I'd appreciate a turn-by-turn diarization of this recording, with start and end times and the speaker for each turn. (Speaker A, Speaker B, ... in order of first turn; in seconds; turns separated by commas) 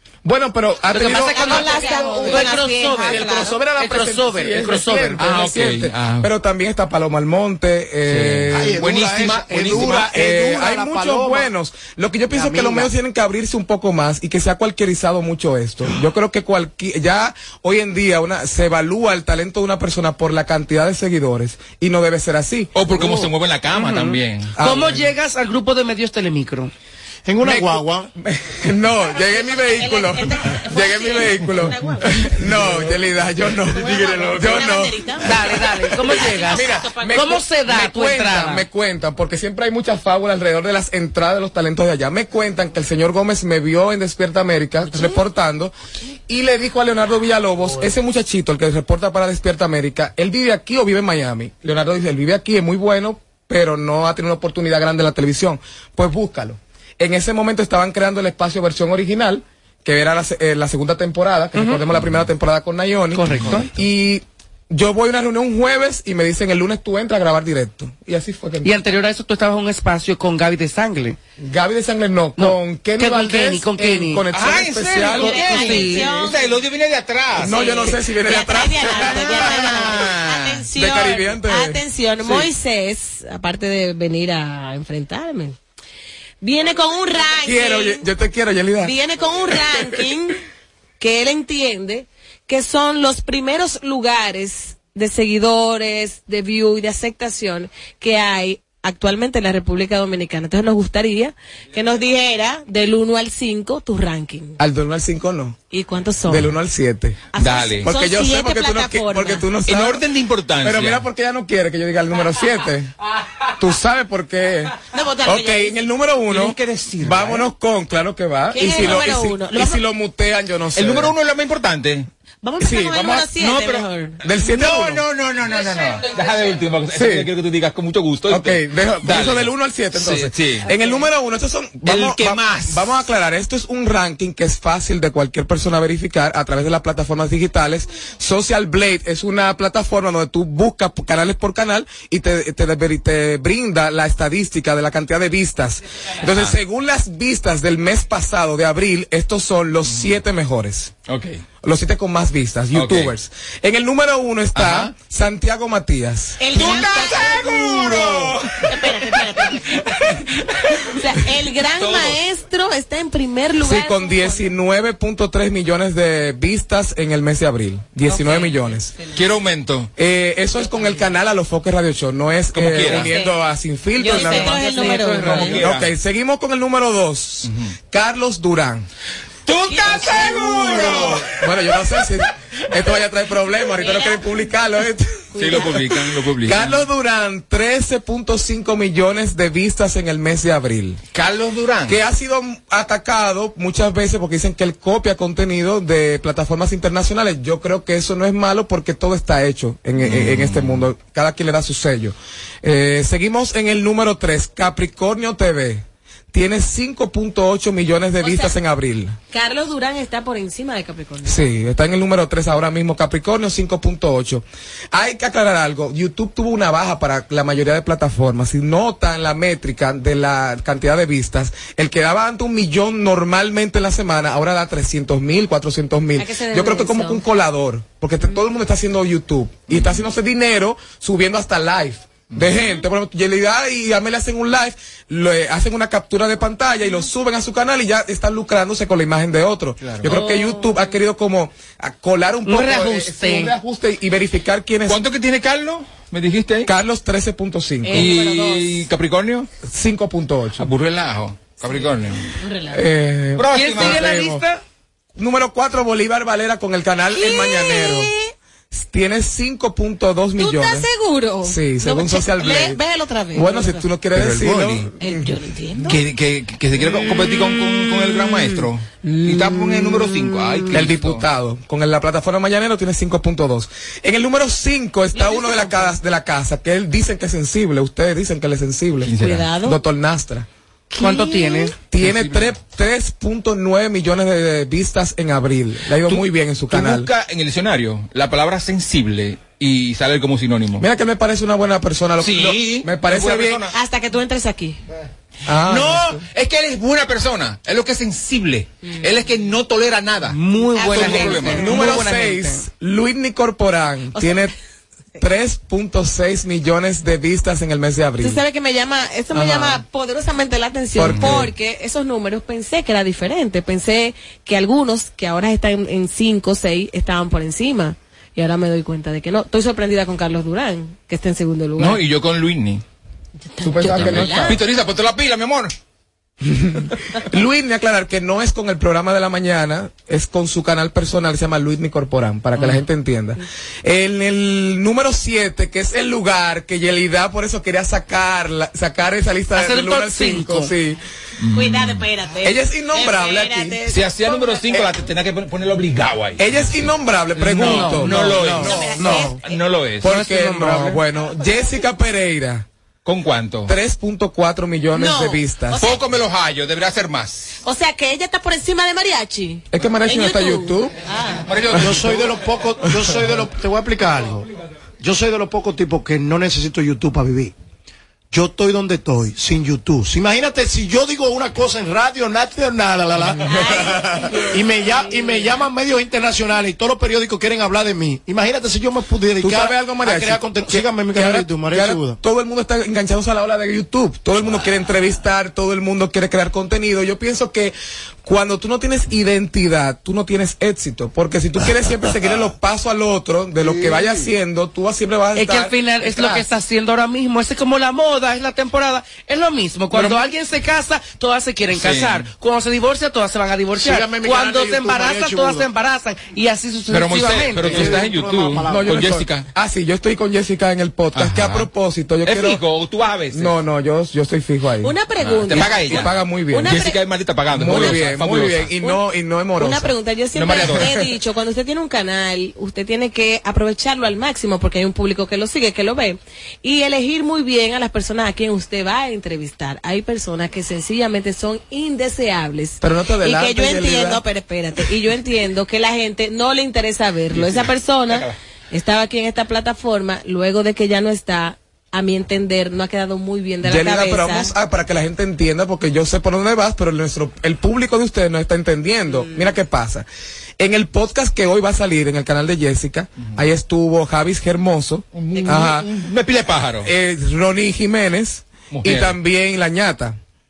Speaker A: 0.2-2.5, Speaker B: 0.9-5.2, Speaker C: 1.2-3.6, Speaker A: 3.1-8.9, Speaker D: 5.2-6.3, Speaker D: 8.1-10.1, Speaker E: 8.5-11.5, Speaker A: 9.7-22.7, Speaker E: 12.3-12.8, Speaker D: 22.7-25.0, Speaker B: 22.9-26.7, Speaker E: 27.2-28.1, Speaker A: 27.4-45.7, Speaker C: 29.4-32.3, Speaker C: 33.7-37.4, Speaker B: 35.2-38.6, Speaker C: 44.9-45.2, Speaker A: 46.3-68.7, Speaker B: 61.5-61.9, Speaker B: 63.3-63.7, Speaker B: 68.6-71.2, Speaker A: 71.4-75.5, Speaker B: 72.4-74.2, Speaker D: 74.3-77.6, Speaker C: 75.1-76.3, Speaker B: 75.2-76.1, Speaker A: 77.3-79.8, Speaker C: 77.4-85.6, Speaker D: 78.9-80.6, Speaker A: 80.7-81.8, Speaker C: 86.4-88.0, Speaker A: 87.4-88.9, Speaker C: 88.8-90.4, Speaker C: 91.0-104.6, Speaker A: 104.6-105.6, Speaker C: 105.7-106.5, Speaker A: 106.3-107.3, Speaker C: 107.3-109.4, Speaker D: 107.4-107.8, Speaker A: 107.8-110.0, Speaker D: 109.7-111.0, Speaker A: 110.6-112.9, Speaker A: 113.6-121.1, Speaker C: 114.9-115.7, Speaker D: 116.3-117.5, Speaker C: 118.5-119.8, Speaker D: 118.7-119.1, Speaker D: 120.8-122.1, Speaker C: 122.4-124.2, Speaker A: 122.6-123.2, Speaker D: 123.1-123.8, Speaker A: 124.2-125.0, Speaker D: 124.4-130.7, Speaker A: 126.9-127.3, Speaker A: 128.3-150.9, Speaker C: 130.7-131.0, Speaker D: 131.8-132.8, Speaker D: 146.2-146.5, Speaker D: 149.9-150.1, Speaker D: 151.1-151.4, Speaker A: 151.6-158.3, Speaker D: 152.7-153.1, Speaker D: 154.5-154.9, Speaker C: 156.4-157.7, Speaker D: 156.5-160.8, Speaker C: 158.7-159.6, Speaker C: 160.8-164.4, Speaker D: 161.8-162.2, Speaker A: 163.6-168.9, Speaker C: 168.1-169.1, Speaker D: 169.1-169.9, Speaker A: 170.0-178.9, Speaker D: 172.5-173.1, Speaker C: 172.8-173.3, Speaker C: 174.0-175.6, Speaker D: 174.1-175.9, Speaker D: 177.4-177.7, Speaker D: 179.5-181.4, Speaker A: 179.8-191.0, Speaker C: 183.8-184.2, Speaker D: 185.3-186.8, Speaker D: 191.1-192.0, Speaker A: 191.9-209.2, Speaker D: 200.0-200.9, Speaker C: 208.2-208.5, Speaker C: 209.3-211.5, Speaker A: 211.2-245.0, Speaker C: 226.2-227.2, Speaker C: 240.0-240.9, Speaker B: 242.4-243.5, Speaker D: 244.9-246.7, Speaker A: 246.6-248.1, Speaker C: 247.8-248.8, Speaker D: 247.9-249.5, Speaker A: 249.6-250.7, Speaker D: 250.6-252.3, Speaker C: 252.4-252.8, Speaker A: 252.7-254.4, Speaker D: 253.4-254.2, Speaker B: 253.5-254.6, Speaker A: 255.2-258.1, Speaker C: 257.1-258.3, Speaker A: 258.7-260.9, Speaker C: 260.4-263.8, Speaker A: 261.4-262.8, Speaker A: 263.3-265.3, Speaker D: 264.1-264.9, Speaker C: 265.0-266.0, Speaker D: 265.9-271.2, Speaker C: 269.1-270.1, Speaker A: 270.7-280.5, Speaker C: 275.1-275.9, Speaker D: 279.1-279.5, Speaker C: 279.2-279.8, Speaker B: 280.9-281.8, Speaker C: 281.0-281.7, Speaker A: 281.9-287.1, Speaker D: 282.0-282.5, Speaker D: 286.0-290.8, Speaker A: 290.8-293.6, Speaker D: 292.2-293.7, Speaker C: 293.7-294.8, Speaker A: 295.4-296.2, Speaker D: 295.6-300.4, Speaker B: 300.3-302.6, Speaker C: 300.7-301.9, Speaker D: 300.9-301.8, Speaker A: 301.6-304.5, Speaker C: 304.1-304.5, Speaker A: 305.2-308.4, Speaker C: 308.2-322.0, Speaker A: 309.3-309.8, Speaker A: 310.9-311.5, Speaker D: 311.0-311.5, Speaker D: 321.8-322.8, Speaker C: 323.5-324.5, Speaker A: 323.6-324.6, Speaker D: 323.9-325.7, Speaker A: 326.4-341.0, Speaker B: 339.5-340.7, Speaker D: 341.4-342.0, Speaker C: 341.5-344.6, Speaker A: 342.4-343.8, Speaker D: 343.9-350.1, Speaker A: 346.4-349.3, Speaker B: 347.6-349.3, Speaker C: 348.5-349.6, Speaker A: 350.0-352.7, Speaker B: 350.1-350.9, Speaker D: 353.0-353.7, Speaker A: 353.6-355.8, Speaker C: 354.9-356.0, Speaker D: 355.8-357.6, Speaker C: 357.6-361.4, Speaker A: 359.7-360.9, Speaker D: 361.5-362.3, Speaker A: 361.7-362.0, Speaker E: 361.8-364.4, Speaker E: 365.0-367.5, Speaker E: 368.3-382.2, Speaker C: 373.4-375.5, Speaker A: 379.4-396.4, Speaker E: 393.6-394.1, Speaker B: 395.3-408.0, Speaker D: 401.7-402.2, Speaker E: 403.8-405.7, Speaker D: 406.9-409.5, Speaker E: 407.5-409.1, Speaker A: 408.6-412.6, Speaker D: 411.1-411.7, Speaker D: 412.2-413.5, Speaker A: 413.3-414.9, Speaker C: 414.8-417.0, Speaker D: 415.2-416.1, Speaker A: 415.5-416.8, Speaker D: 416.6-418.7, Speaker A: 417.5-419.9, Speaker C: 419.6-444.5, Speaker D: 420.3-420.9, Speaker A: 420.7-421.0, Speaker A: 432.8-434.2, Speaker D: 437.4-438.3, Speaker A: 443.6-450.1, Speaker C: 449.1-449.4, Speaker A: 450.6-455.9, Speaker D: 455.1-456.9, Speaker C: 455.4-455.6, Speaker A: 456.8-460.2, Speaker D: 458.7-459.1